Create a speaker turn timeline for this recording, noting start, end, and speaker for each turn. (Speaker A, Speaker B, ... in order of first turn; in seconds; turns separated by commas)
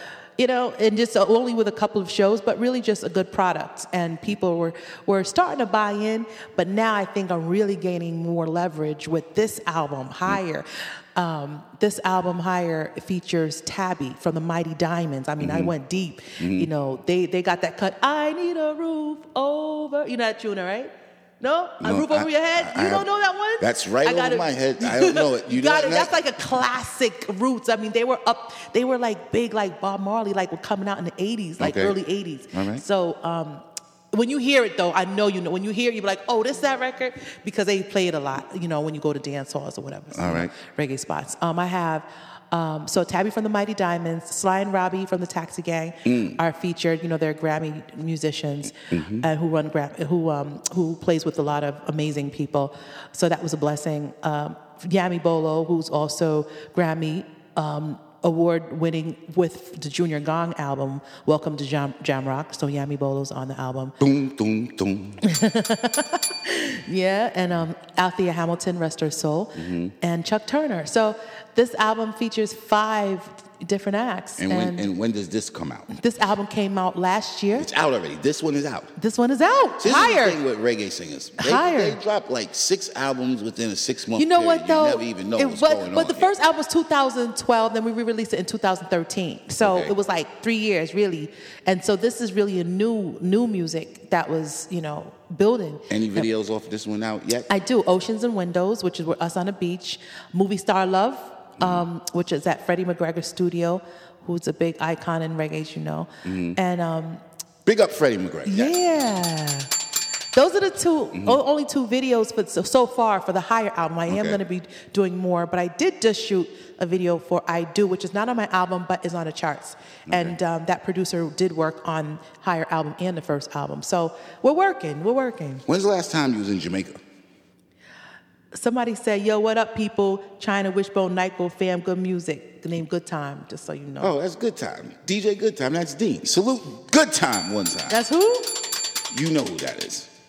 Speaker A: 0.4-64.0, Speaker B: 15.4-15.7, Speaker B: 16.4-16.7, Speaker B: 21.8-23.1, Speaker B: 23.6-26.1, Speaker B: 31.6-32.0, Speaker B: 32.5-32.8, Speaker B: 40.1-40.5, Speaker B: 46.0-46.4, Speaker B: 48.9-49.3, Speaker B: 64.0-65.2, Speaker A: 65.2-74.9, Speaker B: 69.6-69.9, Speaker B: 74.4-75.9, Speaker A: 75.9-77.7, Speaker B: 77.6-78.9, Speaker A: 79.0-80.4, Speaker B: 79.8-86.3, Speaker A: 81.4-82.0, Speaker A: 84.1-96.3, Speaker B: 89.6-89.9, Speaker B: 95.9-97.5, Speaker A: 97.5-107.2, Speaker B: 101.6-101.8, Speaker B: 106.2-106.6, Speaker B: 107.7-108.8, Speaker A: 108.5-109.7, Speaker A: 110.3-125.6, Speaker B: 111.1-111.4, Speaker B: 114.1-114.4, Speaker B: 120.1-120.4, Speaker B: 125.7-127.0, Speaker A: 128.5-134.1, Speaker B: 134.0-138.0, Speaker A: 137.9-138.7, Speaker B: 139.1-140.1